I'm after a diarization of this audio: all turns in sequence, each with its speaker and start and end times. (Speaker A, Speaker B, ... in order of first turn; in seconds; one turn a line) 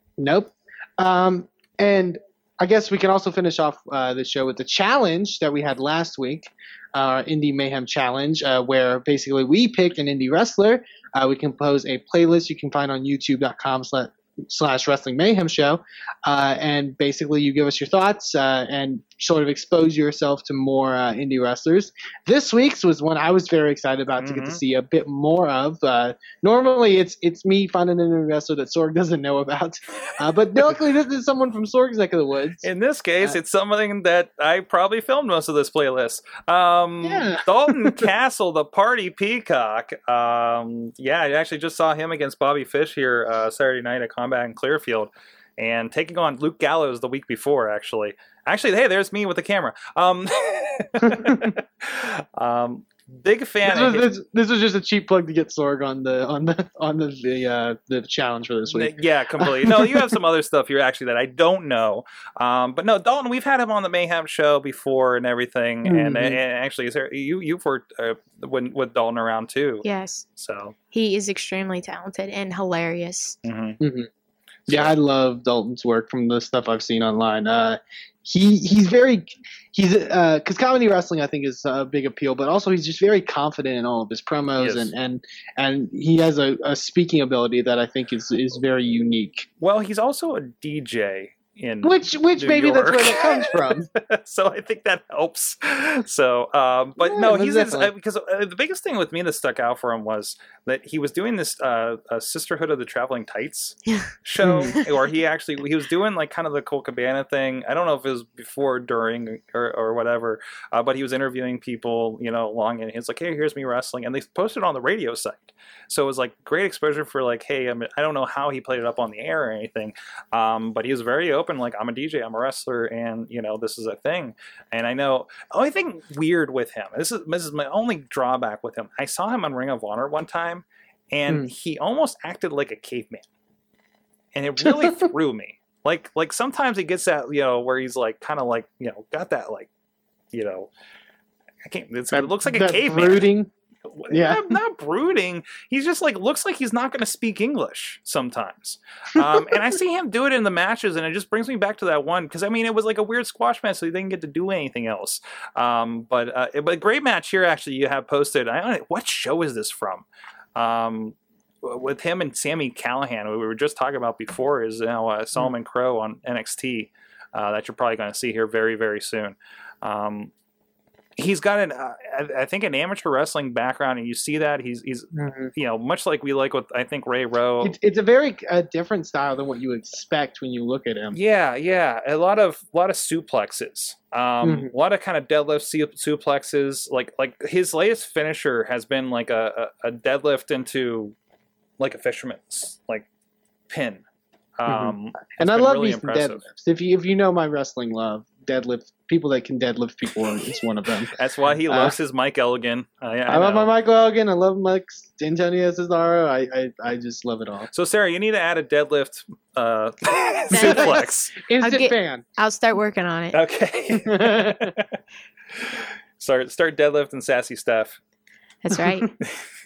Speaker A: 0.2-32.6
Speaker B: 24.1-24.6
Speaker B: 32.6-54.1
Speaker A: 37.0-38.1
Speaker A: 51.0-51.6
Speaker A: 53.6-60.1
Speaker B: 58.7-69.8
Speaker A: 65.8-66.4
Speaker C: 69.8-70.3
Speaker B: 70.4-70.8
Speaker C: 70.9-73.4
Speaker B: 73.4-73.8
Speaker A: 73.8-74.1
Speaker B: 74.7-74.9
Speaker A: 74.7-89.5
Speaker B: 84.6-84.9
Speaker B: 89.6-133.2
Speaker A: 91.8-93.9
Speaker A: 97.0-97.9
Speaker A: 104.4-104.8
Speaker B: 134.3-139.7
Speaker B: 140.3-140.7
Speaker B: 141.7-143.3
Speaker A: 142.1-143.5
Speaker B: 143.9-170.3
Speaker A: 144.1-144.4
Speaker B: 171.2-177.8
Speaker A: 175.1-175.5
Speaker A: 177.6-181.2
Speaker B: 181.1-191.2
Speaker A: 184.4-184.7
Speaker B: 191.8-193.1
Speaker B: 193.7-194.1
Speaker B: 194.6-196.4
Speaker A: 194.7-201.1
Speaker B: 201.1-203.7
Speaker A: 201.7-202.0
Speaker A: 203.3-207.7
Speaker B: 207.7-211.4
Speaker C: 210.5-213.4
Speaker A: 210.5-212.2
Speaker B: 213.3-215.0
Speaker A: 214.0-214.8
Speaker B: 215.6-218.0
Speaker C: 218.6-219.1